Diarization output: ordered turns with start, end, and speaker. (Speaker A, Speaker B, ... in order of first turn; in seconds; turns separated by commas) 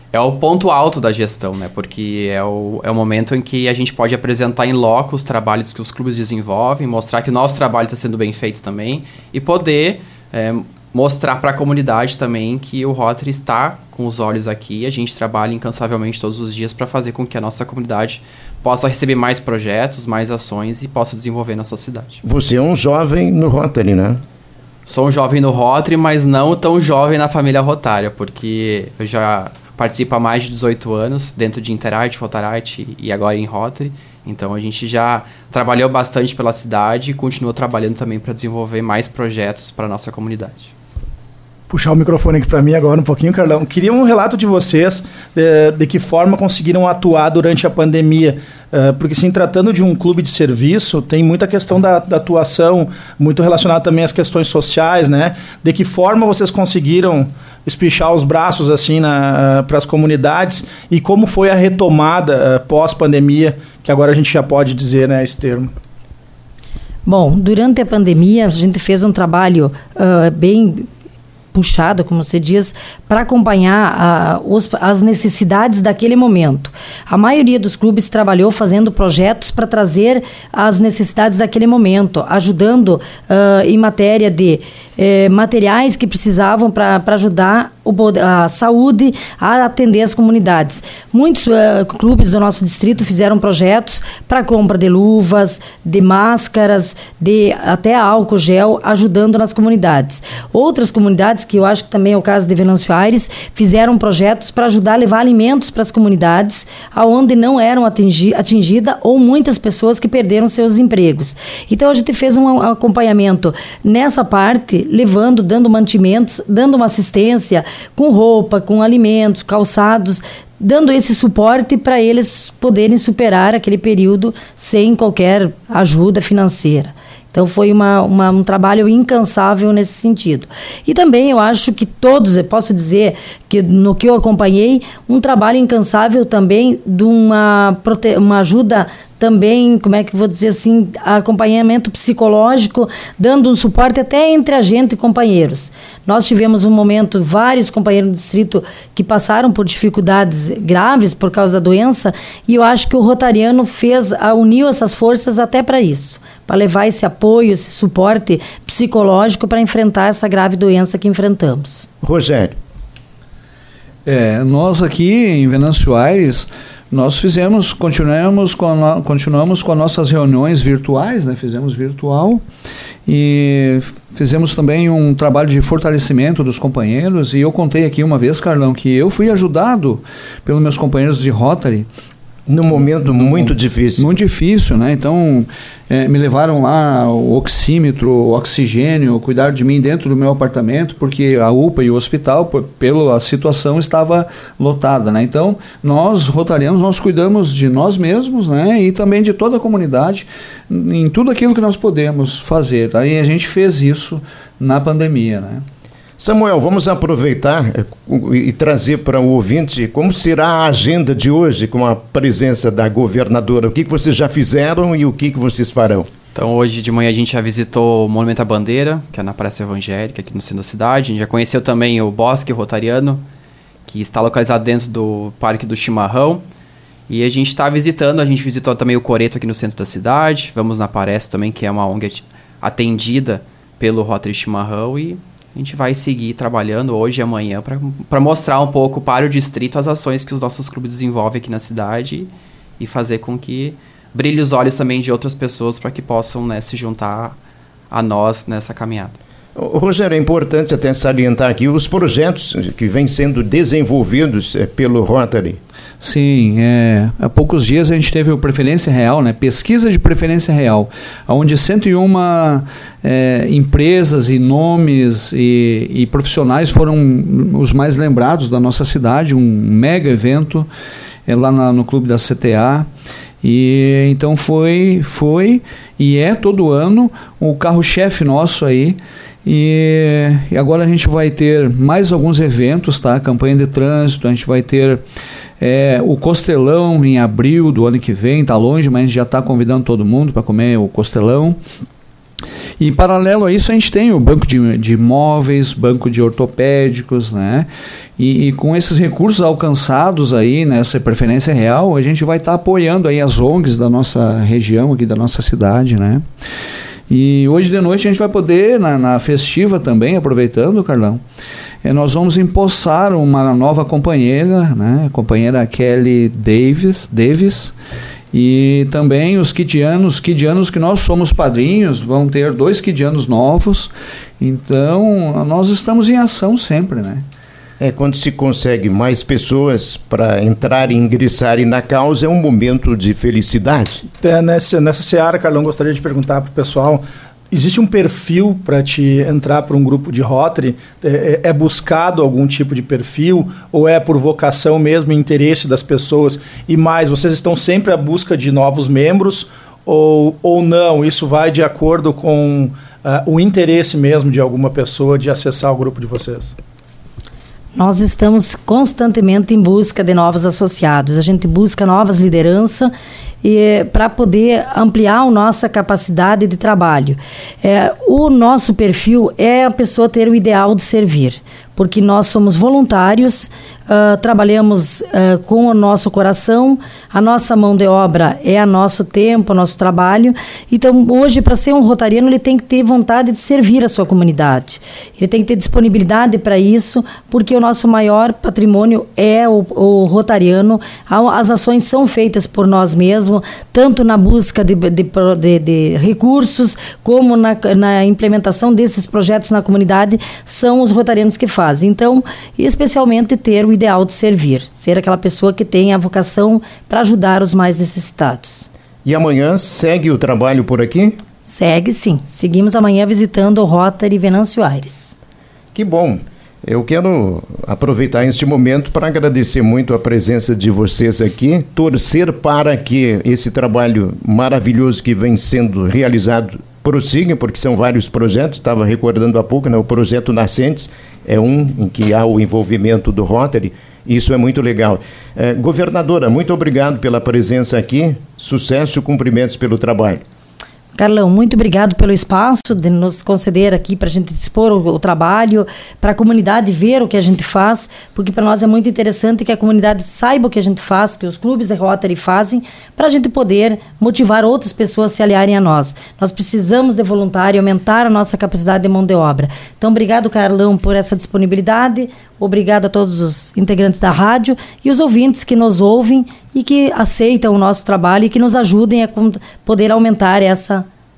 Speaker A: 0.1-22.2, Speaker B: 22.2-24.2, Speaker A: 24.9-40.7, Speaker C: 41.7-65.7, Speaker D: 67.0-70.8, Speaker D: 71.5-161.9, Speaker B: 162.0-162.6, Speaker E: 164.0-172.4, Speaker E: 173.1-181.9, Speaker B: 182.5-184.0, Speaker E: 183.1-205.6, Speaker B: 206.2-216.1, Speaker A: 216.3-223.2, Speaker A: 223.9-226.4, Speaker A: 227.1-247.3, Speaker A: 247.9-249.2, Speaker B: 249.6-255.6, Speaker E: 256.0-270.7, Speaker E: 271.3-272.9, Speaker E: 273.4-285.0, Speaker E: 285.6-291.6, Speaker E: 292.8-297.7, Speaker E: 298.2-306.2, Speaker E: 307.1-311.2, Speaker E: 311.8-317.7, Speaker E: 318.3-327.2, Speaker B: 327.8-334.0, Speaker C: 334.2-356.5, Speaker D: 357.7-362.9, Speaker D: 363.4-408.7, Speaker B: 409.0-411.1, Speaker D: 411.4-415.1, Speaker B: 415.7-440.2, Speaker D: 440.9-470.9